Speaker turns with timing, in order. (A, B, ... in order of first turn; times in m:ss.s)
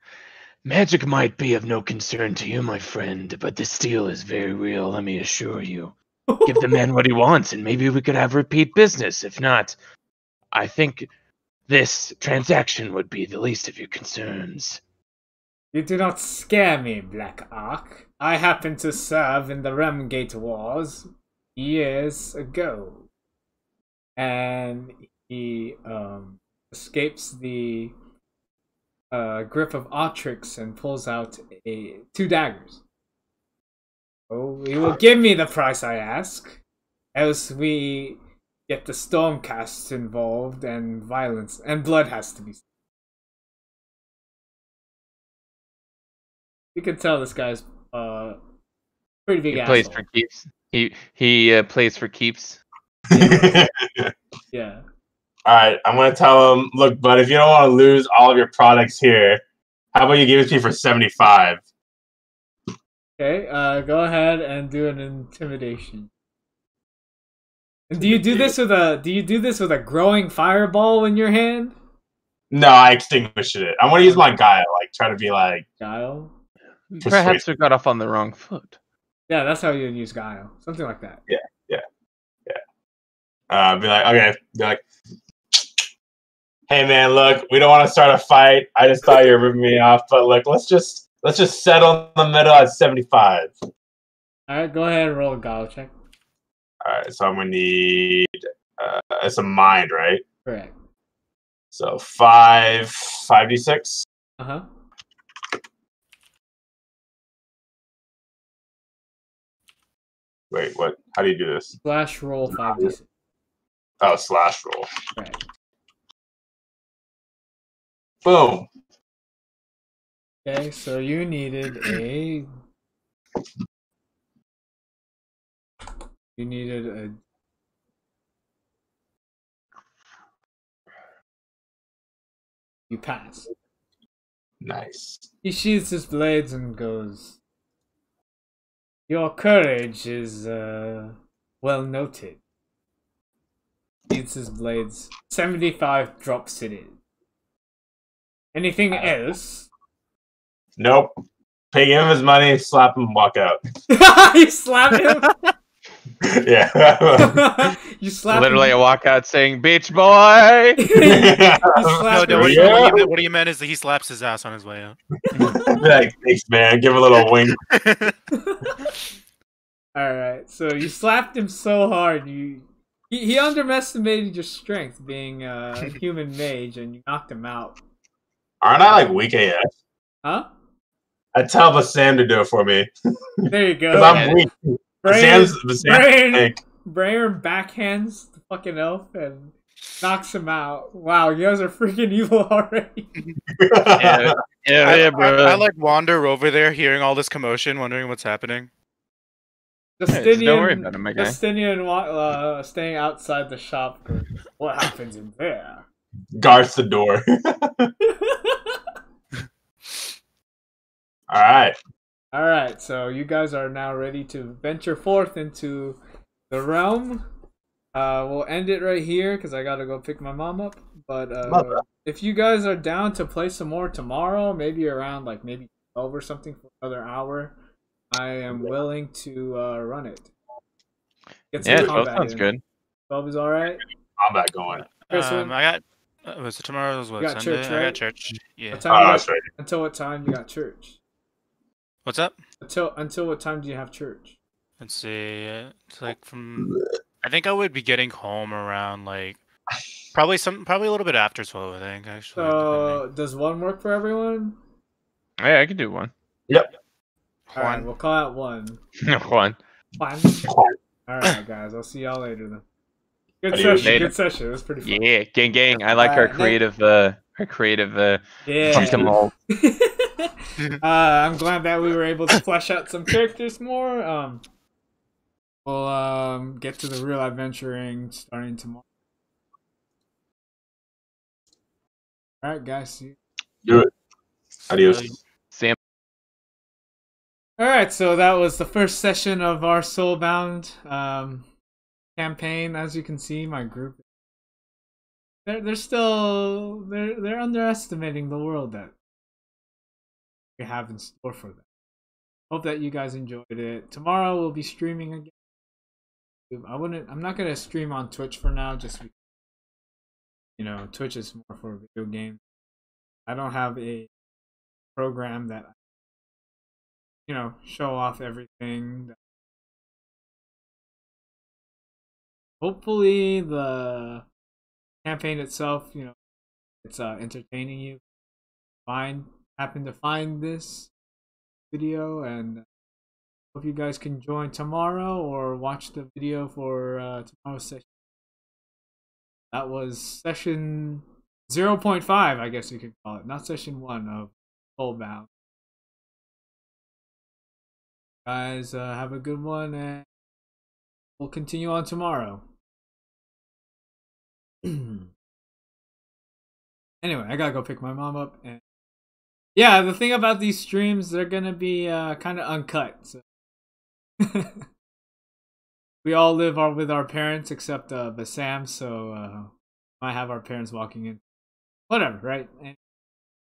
0:00.6-0:09.8 A
0:10.5-0:11.1 A
0:11.7-0:14.8 A
0:15.7-0:23.1 B
0:24.2-0:27.9 B
0:29.1-0:32.8 B
0:34.3-0:36.6 B
0:37.2-0:42.6 B
0:46.8-0:48.4 B
0:49.3-0:50.0 B
0:49.5-0:52.6 A
0:53.1-0:54.1 C
0:53.1-0:53.6 B
0:54.5-0:54.8 B
0:55.5-0:59.4 C
0:59.9-1:01.6 C
1:03.2-1:06.1 B
1:07.9-1:11.7 B
1:08.0-1:08.5 C
1:12.5-1:15.7 C
1:14.0-1:14.3 B
1:15.8-1:16.3 B
1:16.9-1:18.8 A
1:17.0-1:17.4 C
1:19.3-1:21.2 B
1:21.3-1:21.8 C
1:23.5-1:24.8 C
1:25.5-1:25.8 C
1:26.7-1:33.6 C
1:34.5-1:35.9 B
1:36.8-1:40.2 C
1:40.4-1:40.8 B
1:41.7-1:44.0 C
1:44.4-1:44.6 B
1:50.5-1:51.8 C
1:51.8-1:53.1 B
1:54.0-1:54.9 C
1:58.2-1:58.7 C
2:00.4-2:02.5 B
2:06.4-2:07.2 B
2:12.9-2:13.5 B
2:14.6-2:15.3 C
2:15.4-2:17.4 B
2:19.1-2:22.4 B
2:24.1-2:27.0 B
2:28.5-2:29.7 B
2:30.8-2:31.1 C
2:31.7-2:33.6 C
2:33.9-2:35.4 B
2:36.2-2:37.5 C
2:37.2-2:38.7 B
2:38.3-2:40.8 A
2:40.8-2:42.9 B
2:40.9-2:43.1 C
2:42.1-2:45.0 D
2:45.3-2:45.8 B
2:45.4-2:47.6 C
2:47.7-2:48.1 D
2:48.3-2:48.7 B
2:50.0-2:57.8 B
2:58.6-2:59.7 C
3:01.3-3:02.9 C
3:03.4-3:06.6 C
3:03.5-3:04.4 B
3:03.9-3:04.4 A
3:05.0-3:13.1 B
3:13.6-3:14.4 C
3:14.0-3:15.6 A
3:14.8-3:18.7 D
3:20.0-3:25.8 B
3:20.1-3:21.4 A
3:26.4-3:27.9 C
3:28.0-3:28.8 B
3:31.3-3:31.8 C
3:32.3-3:36.0 B
3:36.5-3:37.2 B
3:37.9-3:47.5 B
3:41.5-3:41.8 C
3:48.1-3:50.3 B
3:51.5-3:52.5 B
3:51.6-3:52.6 A
3:53.1-3:53.8 B
3:54.2-3:54.9 C
3:54.9-3:58.8 D
3:55.1-3:55.5 B
3:57.2-3:58.0 B
3:58.7-4:01.0 B
3:58.9-3:59.4 C
4:02.1-4:02.4 D
4:02.6-4:04.4 B
4:04.8-4:09.4 D
4:10.1-4:13.0 D
4:12.4-4:14.6 B
4:15.4-4:16.1 A
4:17.5-4:17.9 D
4:17.6-4:18.8 B
4:19.0-4:19.6 A
4:20.0-4:20.5 B
4:20.5-4:20.7 C
4:21.1-4:22.6 B
4:23.4-4:25.0 B
4:23.5-4:24.1 C
4:23.6-4:24.1 A
4:24.8-4:29.3 A
4:26.0-4:26.6 B
4:28.4-4:34.4 B
4:28.7-4:29.1 C
4:35.6-4:38.8 B
4:42.4-4:43.2 B
4:43.6-4:43.9 C
4:44.7-4:45.1 C
4:44.7-4:45.2 D
4:45.5-4:45.8 A
4:47.6-4:51.5 B
4:52.2-4:54.0 B
4:55.5-4:58.9 B
5:00.6-5:01.6 B
5:02.5-5:05.3 B
5:06.5-5:09.1 B
5:10.6-5:12.4 B
5:13.3-5:14.1 B
5:15.0-5:15.8 B
5:17.3-5:19.2 B
5:22.6-5:24.2 B
5:25.0-5:26.2 B
5:26.8-5:28.0 B
5:28.9-5:30.9 B
5:31.7-5:32.6 B
5:33.5-5:37.9 B
5:39.5-5:45.3 B
5:48.3-5:50.1 B
5:51.2-5:52.4 B
5:54.6-5:55.1 B
5:57.0-5:58.6 B
5:59.6-6:03.2 B
6:04.2-6:04.6 B
6:06.0-6:11.2 B
6:11.9-6:12.8 B